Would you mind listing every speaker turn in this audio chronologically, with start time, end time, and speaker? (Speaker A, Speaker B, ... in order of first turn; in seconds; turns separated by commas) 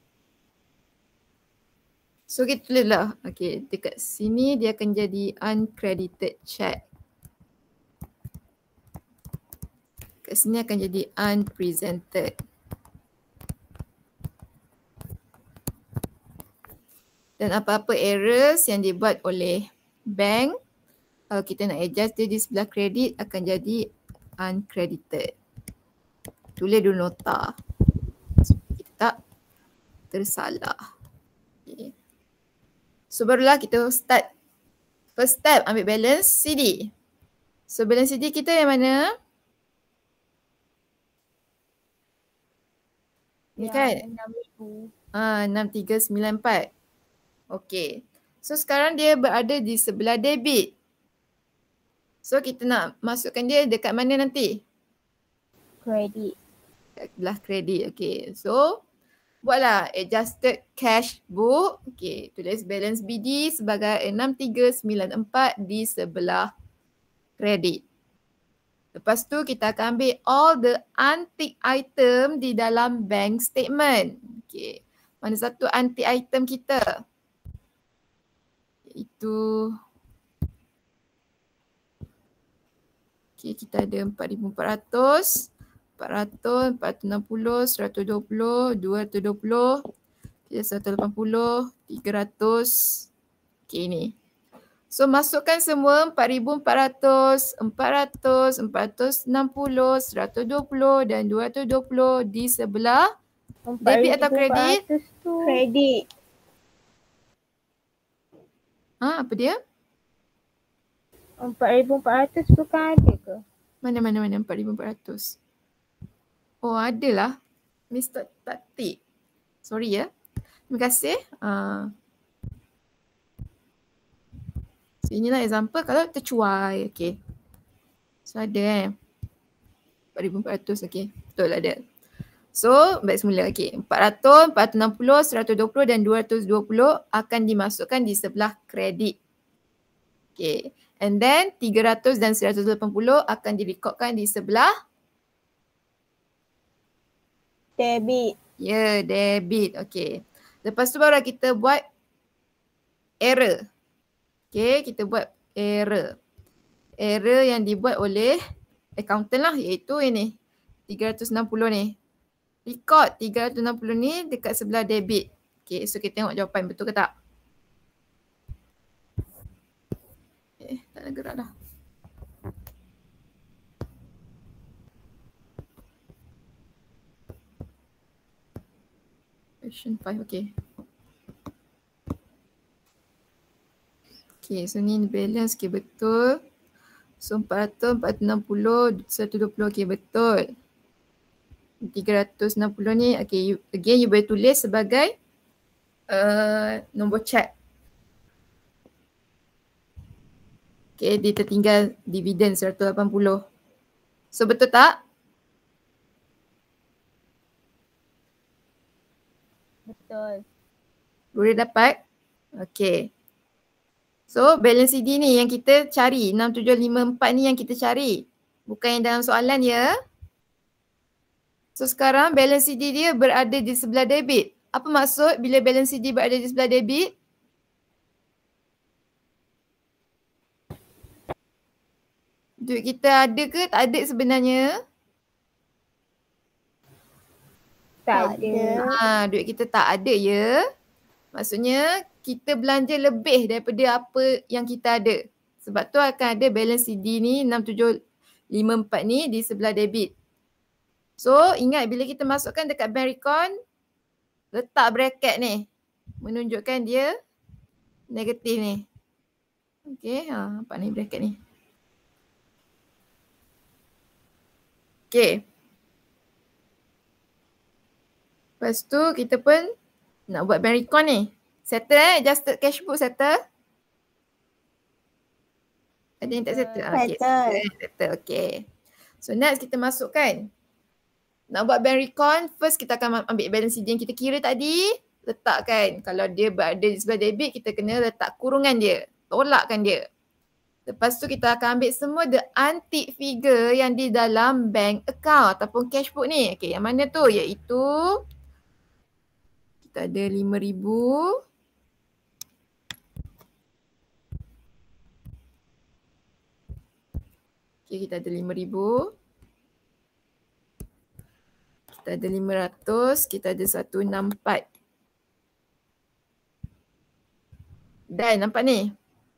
Speaker A: 2.3-6.8, Speaker A: 10.2-12.3, Speaker A: 17.4-20.6, Speaker A: 21.3-23.9, Speaker A: 24.4-25.3, Speaker A: 26.6-27.6, Speaker A: 28.5-29.1, Speaker A: 30.1-30.8, Speaker A: 31.7-31.9, Speaker A: 33.1-34.3, Speaker A: 35.2-36.9, Speaker A: 37.7-39.1, Speaker A: 43.6-44.0, Speaker B: 43.6-44.9, Speaker A: 45.1-46.7, Speaker A: 47.5-50.7, Speaker A: 52.2-54.6, Speaker B: 55.8-56.4, Speaker A: 57.0-58.8, Speaker A: 59.4-66.5, Speaker A: 67.4-67.8, Speaker A: 68.9-76.8, Speaker A: 78.9-79.8, Speaker A: 83.4-89.8, Speaker A: 90.5-93.1, Speaker A: 93.7-94.2, Speaker A: 94.9-103.1, Speaker B: 103.7-105.6, Speaker A: 103.8-104.8, Speaker C: 105.4-106.1, Speaker A: 109.0-109.6, Speaker B: 111.4-113.4, Speaker A: 113.8-115.4, Speaker A: 116.6-117.4, Speaker A: 117.9-119.0, Speaker A: 119.7-120.1, Speaker A: 120.7-121.9, Speaker A: 125.0-127.2, Speaker A: 128.3-128.9, Speaker A: 130.2-131.8, Speaker A: 132.5-139.2, Speaker A: 140.4-144.7, Speaker C: 147.8-148.3, Speaker A: 148.6-151.8, Speaker A: 153.2-153.6, Speaker A: 154.5-156.2, Speaker A: 157.0-158.4, Speaker A: 159.0-160.4, Speaker A: 160.9-162.0, Speaker A: 162.7-167.1, Speaker A: 170.6-171.5, Speaker A: 179.6-180.5, Speaker A: 184.4-186.4, Speaker A: 187.2-190.5, Speaker A: 191.8-195.2, Speaker A: 196.1-197.5, Speaker A: 201.0-203.4, Speaker A: 204.3-205.0, Speaker B: 209.9-210.4, Speaker A: 211.3-212.0, Speaker A: 212.6-213.1, Speaker A: 214.3-219.9, Speaker A: 221.8-227.1, Speaker A: 232.6-234.7, Speaker B: 238.1-239.0, Speaker C: 238.1-238.9, Speaker A: 238.8-240.5, Speaker A: 241.3-247.9, Speaker A: 248.5-250.1, Speaker A: 251.2-253.5, Speaker A: 254.5-255.7, Speaker A: 256.2-257.1, Speaker A: 258.1-258.9, Speaker A: 259.9-261.4, Speaker A: 265.1-265.4, Speaker A: 268.6-269.7, Speaker A: 270.3-273.4, Speaker A: 276.2-278.7, Speaker B: 276.5-277.1, Speaker C: 276.9-277.6, Speaker A: 279.2-280.5, Speaker A: 281.5-290.0, Speaker A: 290.9-298.2, Speaker A: 299.8-301.3, Speaker A: 307.9-309.1, Speaker A: 312.0-314.6, Speaker A: 318.1-318.9